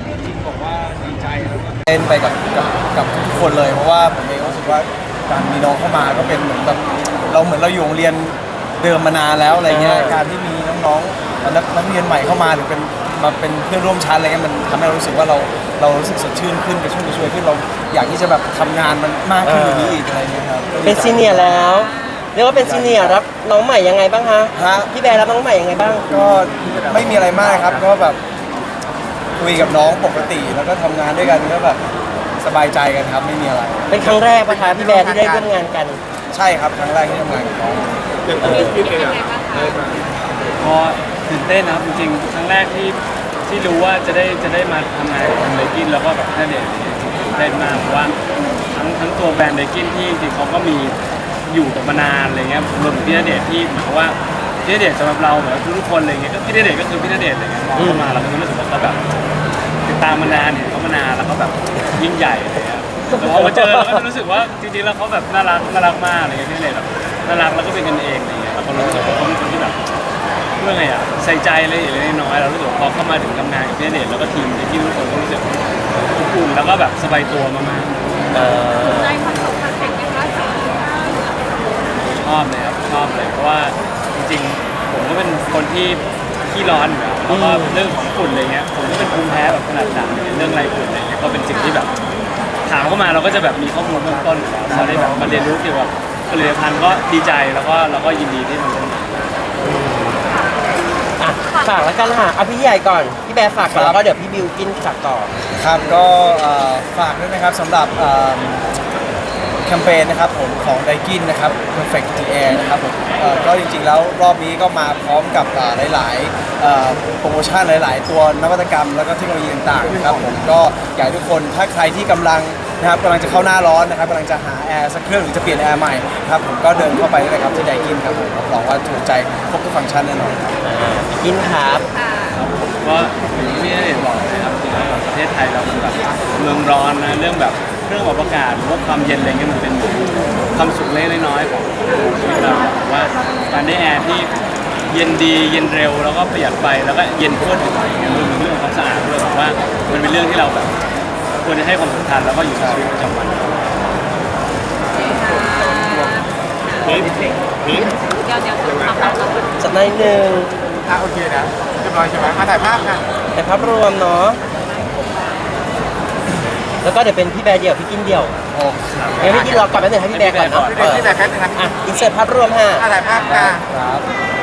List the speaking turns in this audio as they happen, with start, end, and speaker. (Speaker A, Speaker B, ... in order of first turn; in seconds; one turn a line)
Speaker A: 0.7-21.7
Speaker B: 9.7-10.2
Speaker B: 19.4-20.0
Speaker B: 20.8-26.1
Speaker C: 21.8-22.3
Speaker A: 22.6-23.2
Speaker A: 24.6-24.9
Speaker A: 26.0-28.2
Speaker A: 29.4-31.8
Speaker A: 32.4-34.0
Speaker B: 33.9-36.0
Speaker A: 36.3-38.8
Speaker C: 38.4-40.0
Speaker D: 40.6-48.2
Speaker D: 48.7-59.0
Speaker B: 57.8-58.2
Speaker D: 59.9-69.8
Speaker B: 63.1-64.0
Speaker B: 68.8-69.3
Speaker D: 70.6-77.9
Speaker B: 78.3-79.2
Speaker C: 78.8-81.8
Speaker D: 82.0-91.9
Speaker B: 87.3-87.8
Speaker C: 91.5-91.9
Speaker D: 92.7-99.2
Speaker A: 94.7-95.5
Speaker B: 94.7-95.2
Speaker B: 99.6-100.2
Speaker C: 100.3-100.8
Speaker B: 101.2-105.3
Speaker C: 101.4-102.0
Speaker A: 103.7-104.0
Speaker A: 105.6-108.7
Speaker A: 109.6-130.6
Speaker B: 130.6-131.8
Speaker C: 131.9-132.4
Speaker D: 132.3-144.4
Speaker D: 144.9-150.8
Speaker D: 151.4-153.7
Speaker A: 152.6-152.8
Speaker C: 154.9-157.1
Speaker C: 157.6-159.6
Speaker B: 159.6-160.5
Speaker E: 160.9-163.0
Speaker B: 163.4-164.4
Speaker C: 164.5-165.6
Speaker B: 166.8-168.4
Speaker A: 168.5-169.5
Speaker D: 168.9-171.4
Speaker B: 169.2-172.9
Speaker E: 172.9-173.6
Speaker C: 172.9-173.5
Speaker A: 173.2-174.1